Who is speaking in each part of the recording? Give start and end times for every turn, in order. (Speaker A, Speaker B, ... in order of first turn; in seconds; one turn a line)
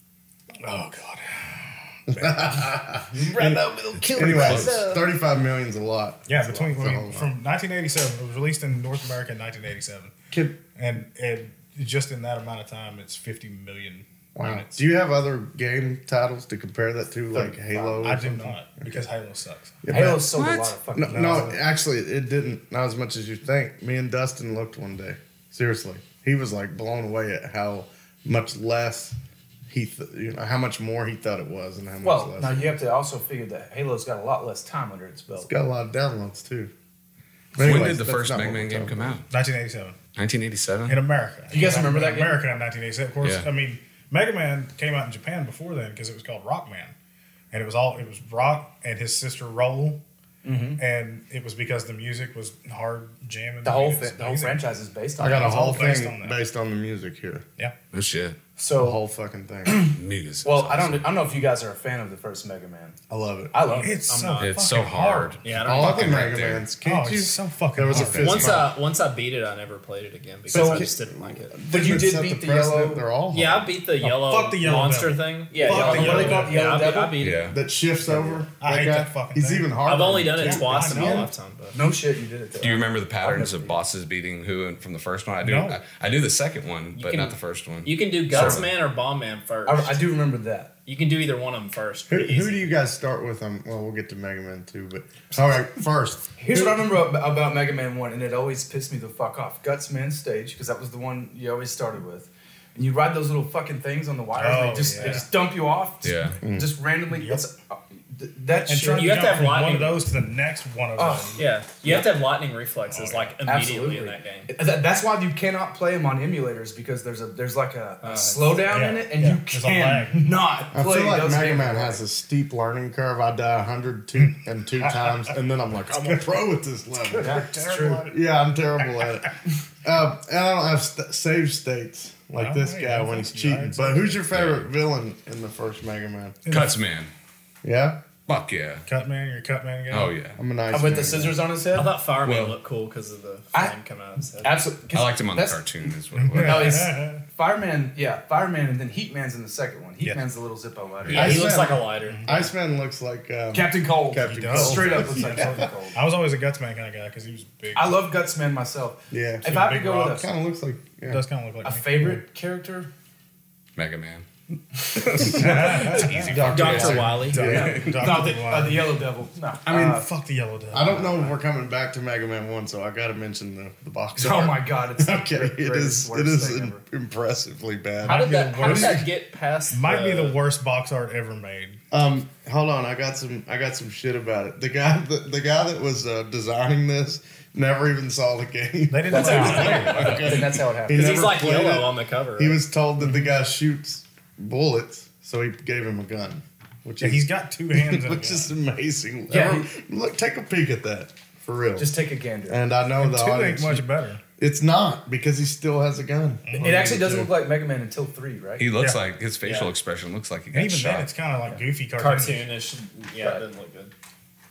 Speaker A: 0.6-2.6
Speaker B: 2.1-7.3
Speaker C: 3.1-5.0
Speaker D: 4.2-4.8
Speaker A: 6.3-10.1
Speaker C: 6.4-6.7
Speaker B: 10.3-10.6
Speaker A: 10.8-14.7
Speaker B: 14.4-19.0
Speaker C: 17.4-18.3
Speaker A: 18.0-20.1
Speaker B: 19.8-20.2
Speaker C: 19.9-21.6
Speaker D: 20.3-20.7
Speaker B: 20.9-29.2
Speaker A: 21.1-21.5
Speaker B: 29.7-32.7
Speaker C: 32.0-35.5
Speaker B: 35.4-36.7
Speaker B: 37.5-39.2
Speaker D: 37.6-39.3
Speaker C: 37.6-38.0
Speaker A: 39.3-40.0
Speaker D: 40.2-41.0
Speaker A: 40.9-46.9
Speaker C: 41.5-42.6
Speaker A: 47.5-50.0
Speaker C: 50.4-50.8
Speaker A: 50.8-54.6
Speaker C: 53.6-55.9
Speaker B: 55.2-57.5
Speaker A: 55.4-56.4
Speaker D: 57.9-58.4
Speaker C: 58.6-59.0
Speaker B: 58.8-59.9
Speaker C: 59.7-63.0
Speaker D: 59.7-61.1
Speaker B: 63.1-63.5
Speaker C: 63.5-64.2
Speaker A: 63.8-65.6
Speaker E: 64.1-64.6
Speaker D: 64.4-66.7
Speaker E: 65.4-66.3
Speaker B: 65.5-68.7
Speaker A: 66.8-68.6
Speaker D: 67.9-68.5
Speaker E: 68.2-71.6
Speaker B: 70.5-73.7
Speaker C: 70.5-70.9
Speaker C: 71.7-73.0
Speaker E: 73.3-77.5
Speaker A: 74.0-76.7
Speaker C: 75.6-77.2
Speaker B: 76.0-76.5
Speaker D: 77.2-77.6
Speaker B: 77.4-81.2
Speaker C: 78.1-78.5
Speaker A: 78.6-79.7
Speaker E: 79.9-81.8
Speaker A: 80.3-81.3
Speaker C: 81.7-83.8
Speaker D: 82.6-88.7
Speaker A: 85.4-85.8
Speaker E: 87.0-90.0
Speaker C: 88.3-88.7
Speaker C: 89.7-90.7
Speaker E: 90.9-92.6
Speaker B: 92.1-96.8
Speaker C: 96.4-109.2
Speaker A: 104.3-105.3
Speaker D: 106.0-106.4
Speaker B: 106.4-106.7
Speaker A: 107.1-107.4
Speaker A: 108.6-111.5
Speaker E: 108.9-110.0
Speaker C: 111.0-112.1
Speaker E: 111.4-114.5
Speaker A: 112.9-113.4
Speaker C: 113.5-122.0
Speaker E: 118.0-118.6
Speaker A: 118.7-120.4
Speaker B: 120.7-136.4
Speaker A: 124.3-125.3
Speaker A: 127.1-128.2
Speaker C: 127.2-128.1
Speaker A: 132.4-134.2
Speaker D: 134.3-134.7
Speaker A: 136.5-136.7
Speaker D: 136.5-137.1
Speaker B: 137.6-138.0
Speaker D: 138.3-138.9
Speaker A: 138.9-140.1
Speaker D: 139.9-140.4
Speaker B: 140.4-141.4
Speaker C: 140.7-141.9
Speaker E: 141.7-144.6
Speaker D: 142.2-142.6
Speaker C: 144.4-145.6
Speaker D: 144.9-146.9
Speaker A: 146.2-147.2
Speaker C: 146.4-151.4
Speaker E: 151.1-152.5
Speaker B: 151.1-155.7
Speaker A: 152.1-152.4
Speaker C: 153.5-156.0
Speaker A: 154.3-158.0
Speaker C: 157.8-160.3
Speaker B: 159.1-161.2
Speaker A: 159.5-160.2
Speaker A: 161.1-162.2
Speaker C: 161.6-162.9
Speaker D: 163.8-164.3
Speaker D: 164.8-167.9
Speaker A: 165.2-168.9
Speaker B: 165.2-167.7
Speaker E: 166.4-167.5
Speaker C: 167.3-170.1
Speaker A: 169.7-171.3
Speaker B: 170.7-179.1
Speaker C: 174.2-176.8
Speaker A: 178.0-179.1
Speaker E: 178.0-180.4
Speaker A: 179.7-181.8
Speaker B: 181.9-201.9
Speaker A: 188.9-190.1
Speaker C: 189.1-191.4
Speaker E: 189.3-189.8
Speaker D: 189.7-190.6
Speaker E: 190.9-192.6
Speaker A: 193.0-193.3
Speaker A: 197.0-198.5
Speaker C: 199.3-199.7
Speaker C: 201.8-202.6
Speaker B: 202.5-203.9
Speaker A: 203.0-204.2
Speaker B: 204.4-207.3
Speaker A: 206.5-206.9
Speaker C: 206.6-208.7
Speaker D: 208.6-211.1
Speaker E: 209.4-209.7
Speaker A: 210.5-212.5
Speaker E: 212.0-213.9